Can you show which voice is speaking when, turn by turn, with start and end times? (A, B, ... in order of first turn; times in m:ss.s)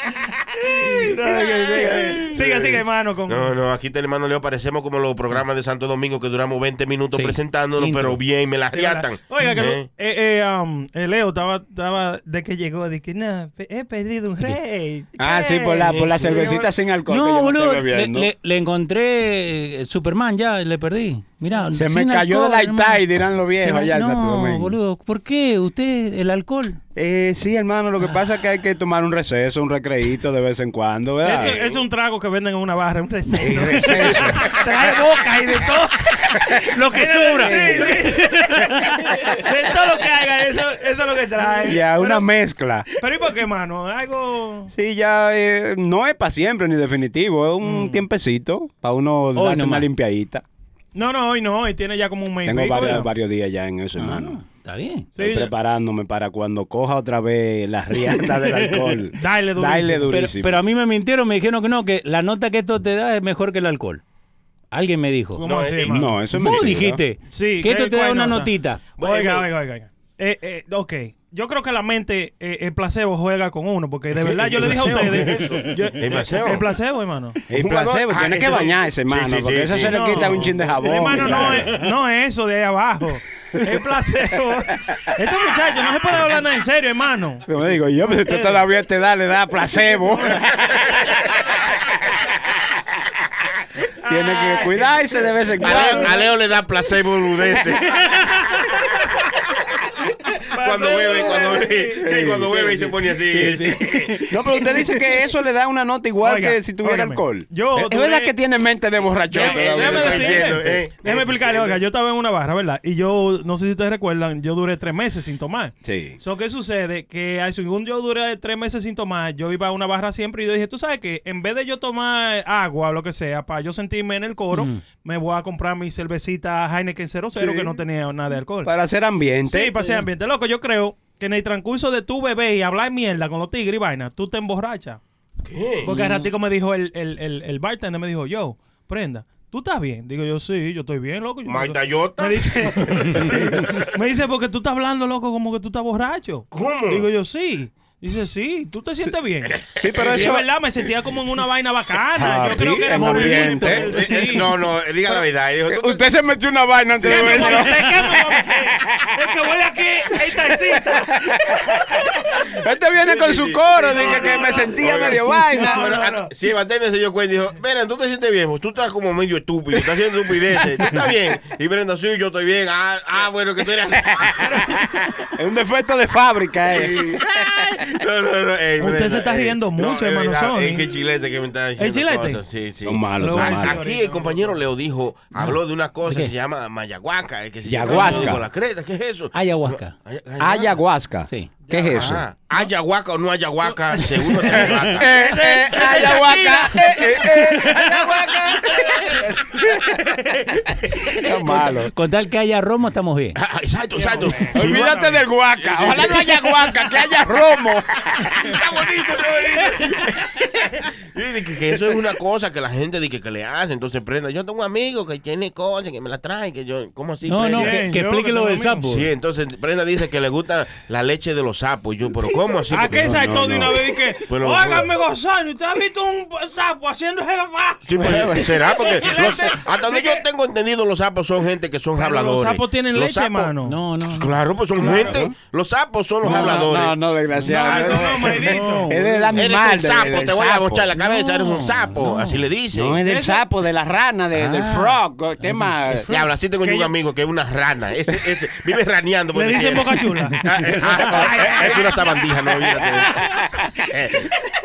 0:00.6-0:03.5 A
0:01.2-0:02.3 B
0:02.2-0:09.9 C
0:07.1-0:08.2 B
0:08.7-0:16.5 A
0:15.2-0:18.3 D
0:15.8-0:16.4 C
0:17.1-0:26.8 B
0:21.7-0:24.8 D
0:27.0-0:31.6 D
0:31.2-0:36.3 A
0:31.3-0:31.8 C
0:33.4-0:34.5 D
0:33.7-0:34.3 B
0:36.5-0:38.8 B
0:36.9-0:42.3 A
0:37.3-0:38.1 D
0:41.6-0:42.9 D
0:43.0-0:44.7 A
0:44.7-0:50.4 D
0:47.6-0:48.0 A
0:49.4-0:49.9 B
0:50.9-0:53.1 A
0:52.4-0:54.4 D
0:54.0-0:55.1 B
0:55.2-0:55.5 A
0:55.2-1:00.6 D
0:59.2-1:00.1 A
1:00.1-1:04.0 B
1:04.7-1:05.4 B
1:05.4-1:06.2 A
1:05.4-1:06.0 C
1:05.9-1:07.0 D
1:06.3-1:08.8 B
1:07.3-1:17.4 A
1:09.0-1:09.5 C
1:14.2-1:16.7 C
1:17.5-1:21.7 D
1:17.5-1:20.6 C
1:19.8-1:27.4 A
1:27.5-1:30.9 D
1:28.1-1:28.7 A
1:29.7-1:30.5 A
1:34.0-1:36.1 A
1:34.1-1:36.2 D
1:35.6-1:38.4 C
1:38.1-1:39.0 A
1:40.3-1:44.3 C
1:40.5-1:42.6 A
1:42.0-1:50.9 D
1:44.6-1:44.9 A
1:46.2-1:48.3 A
1:49.3-1:51.8 C
1:49.3-2:08.7 A
1:55.8-1:56.2 D
2:04.5-2:04.8 B
2:07.4-2:07.8 D
2:08.6-2:10.1 D
2:09.5-2:15.0 A
2:15.4-2:15.9 C
2:15.8-2:34.5 A
2:15.9-2:16.2 B
2:21.5-2:23.9 C
2:26.5-2:27.1 C
2:29.6-2:30.2 C
2:29.8-2:30.5 D
2:32.2-2:34.4 D
2:32.9-2:34.2 B
2:33.9-2:36.0 C
2:35.1-2:38.7 D
2:37.0-2:41.6 A
2:37.1-2:37.6 C
2:40.3-2:41.4 D
2:42.5-2:45.9 D
2:43.1-2:54.6 C
2:43.7-2:46.3 A
2:54.2-2:54.4 D
2:55.4-2:57.5 D
2:56.7-3:10.8 C
2:58.8-3:00.9 A
3:01.8-3:02.4 A
3:02.8-3:03.8 D
3:03.2-3:04.6 A
3:05.3-3:06.3 B
3:07.6-3:08.4 D
3:07.9-3:08.3 B
3:09.3-3:10.0 B
3:10.4-3:12.2 D
3:11.6-3:12.7 A
3:11.9-3:15.1 C
3:14.5-3:19.6 D
3:14.6-3:17.4 A
3:17.4-3:17.9 B
3:21.2-3:21.9 D
3:21.6-3:23.4 B
3:23.4-3:27.3 C
3:23.9-3:25.2 A
3:24.5-3:28.1 D
3:28.3-3:37.8 C
3:37.2-3:39.1 B
3:37.5-3:38.9 A
3:38.9-3:43.6 C
3:42.3-3:50.3 A
3:42.9-3:43.9 D
3:44.3-3:44.9 C
3:47.8-3:53.5 C
3:48.0-3:48.7 D
3:52.0-3:53.7 A
3:53.7-3:54.3 B
3:54.0-3:57.0 C
3:54.8-3:55.1 A
3:54.9-3:55.3 D
3:56.2-4:00.9 D
3:56.2-3:56.6 A
3:57.5-3:58.9 A
3:57.7-3:58.1 C
3:58.5-3:59.4 B
3:59.3-4:03.0 C
4:01.0-4:02.4 B
4:02.7-4:06.1 D
4:03.1-4:03.4 A
4:04.4-4:05.0 C
4:05.4-4:05.7 B
4:06.1-4:13.2 C
4:06.6-4:06.9 A
4:09.3-4:10.4 A
4:11.0-4:12.2 A
4:13.9-4:14.3 C